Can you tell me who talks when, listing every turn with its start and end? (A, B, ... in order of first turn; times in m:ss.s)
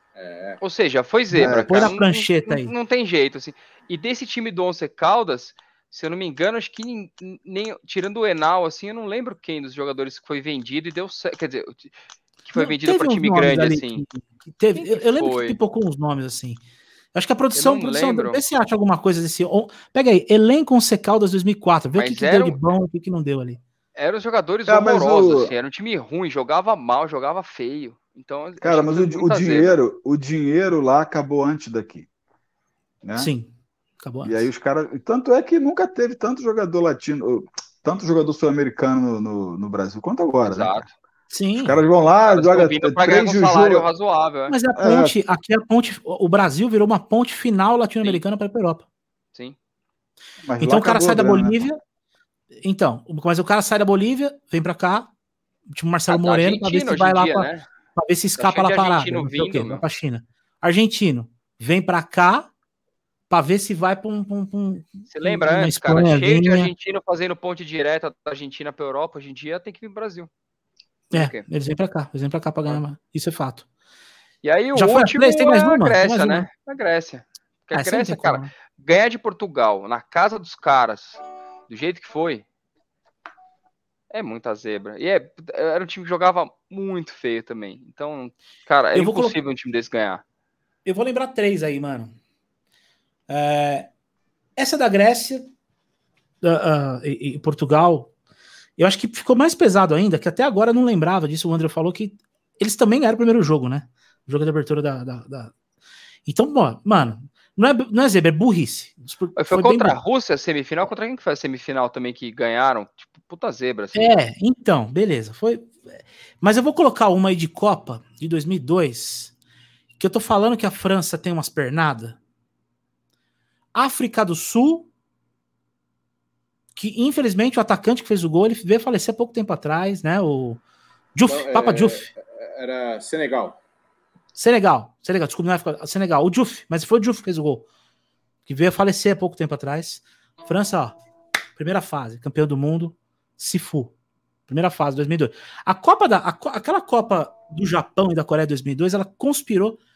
0:00.2-0:00.6 A
0:00.6-0:11.9 B
0:01.4-0:02.0 C
0:01.4-0:02.7 D
0:12.4-0:14.0 B
0:12.6-0:16.6 D
0:14.8-0:15.6 B
0:17.1-0:23.6 D
0:17.5-0:18.4 B
0:22.0-0:22.6 B
0:24.0-0:29.8 B
0:24.7-0:25.5 C
0:28.6-0:32.1 C
0:33.0-0:33.3 C
0:33.2-0:34.5 D
0:34.2-0:40.9 C
0:40.4-0:40.9 B
0:41.3-0:41.8 D
0:41.6-0:43.9 C
0:42.3-0:44.6 B
0:44.5-0:48.8 D
0:44.8-0:45.2 C
0:50.4-0:51.7 C
0:50.6-0:51.8 D
0:52.6-0:55.1 D
0:55.7-1:02.5 D
0:56.1-0:57.7 B
0:58.4-0:59.8 B
1:03.3-1:06.7 D
1:05.1-1:10.3 B
1:11.1-1:11.4 B
1:11.1-1:13.7 D
1:14.4-1:22.4 B
1:14.8-1:16.5 D
1:17.7-1:18.5 D
1:24.1-1:30.2 B
1:28.9-1:29.4 D
1:30.8-1:32.1 D
1:33.3-1:33.9 D
1:34.6-1:35.5 D
1:36.4-1:38.1 D
1:38.8-1:45.5 D
1:46.3-1:50.0 D
1:49.4-1:54.2 B
1:54.0-1:59.3 D
2:00.0-2:02.2 D
2:03.8-2:04.9 D
2:06.8-2:10.6 D
2:11.2-2:12.1 D
2:11.3-2:13.6 A
2:14.4-2:17.7 D
2:18.5-2:21.0 D
2:21.6-2:23.9 D
2:24.5-2:29.8 D